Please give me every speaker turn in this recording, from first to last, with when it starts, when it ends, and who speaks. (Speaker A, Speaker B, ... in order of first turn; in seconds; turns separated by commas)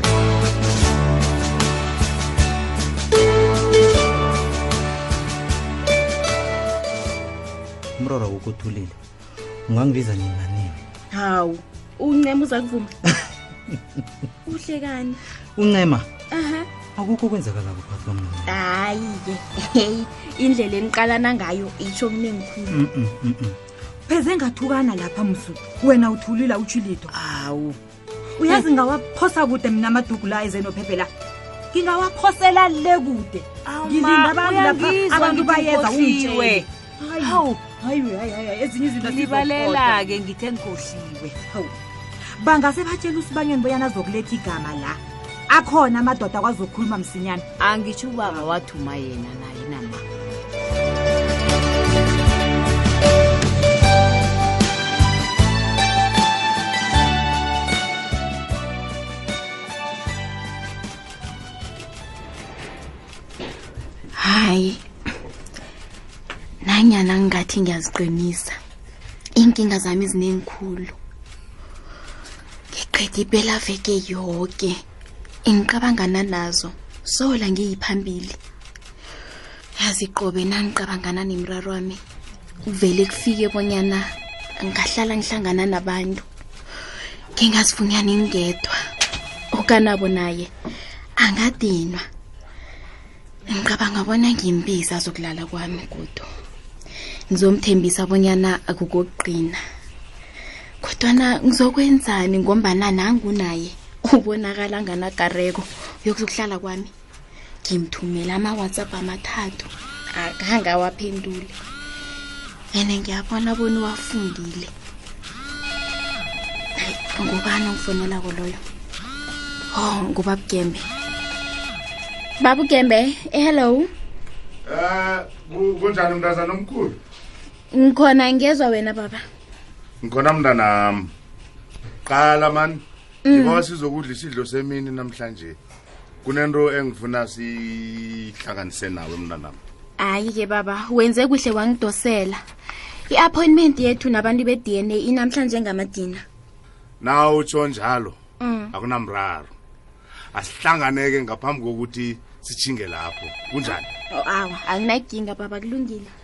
Speaker A: 8.0-8.9, Speaker A: 9.7-10.8, Speaker B: 11.1-12.9, Speaker A: 13.7-14.0, Speaker B: 14.4-15.2, Speaker A: 15.6-16.1, Speaker B: 16.3-16.7, Speaker A: 16.9-18.5, Speaker B: 18.4-22.8, Speaker A: 22.7-23.6, Speaker C: 24.1-27.1, Speaker D: 27.1-27.8, Speaker C: 28.4-31.1, Speaker C: 31.7-40.1, Speaker D: 33.6-36.6, Speaker D: 37.2-37.5, Speaker D: 39.0-41.3, Speaker C: 41.2-41.7, Speaker C: 42.4-47.5, Speaker D: 47.6-50.0, Speaker C: 48.2-48.5, Speaker B: 64.2-64.8, Speaker B: 66.6-68.6, Speaker B: 69.4-70.9, Speaker B: 72.7-74.7, Speaker B: 75.5-78.4, Speaker B: 79.8-82.0, Speaker B: 82.7-84.1, Speaker B: 84.6-86.2, Speaker B: 87.3-88.8, Speaker B: 89.5-90.5, Speaker B: 91.2-92.0, Speaker B: 93.5-96.3, Speaker B: 97.3-99.6, Speaker B: 100.8-106.9, Speaker B: 107.6-111.5, Speaker B: 112.7-114.7, Speaker B: 116.8-118.6, Speaker B: 119.7-120.8, Speaker B: 122.4-123.9, Speaker E: 124.7-127.0, Speaker B: 127.7-129.2, Speaker E: 130.0-131.1, Speaker E: 132.1-135.6, Speaker B: 133.2-133.6, Speaker E: 136.2-139.6, Speaker B: 140.0-142.4, Speaker B: 143.1-146.2, Speaker E: 147.0-148.2, Speaker B: 148.4-148.7, Speaker E: 148.7-149.5, Speaker E: 150.3-153.8, Speaker B: 153.7-156.1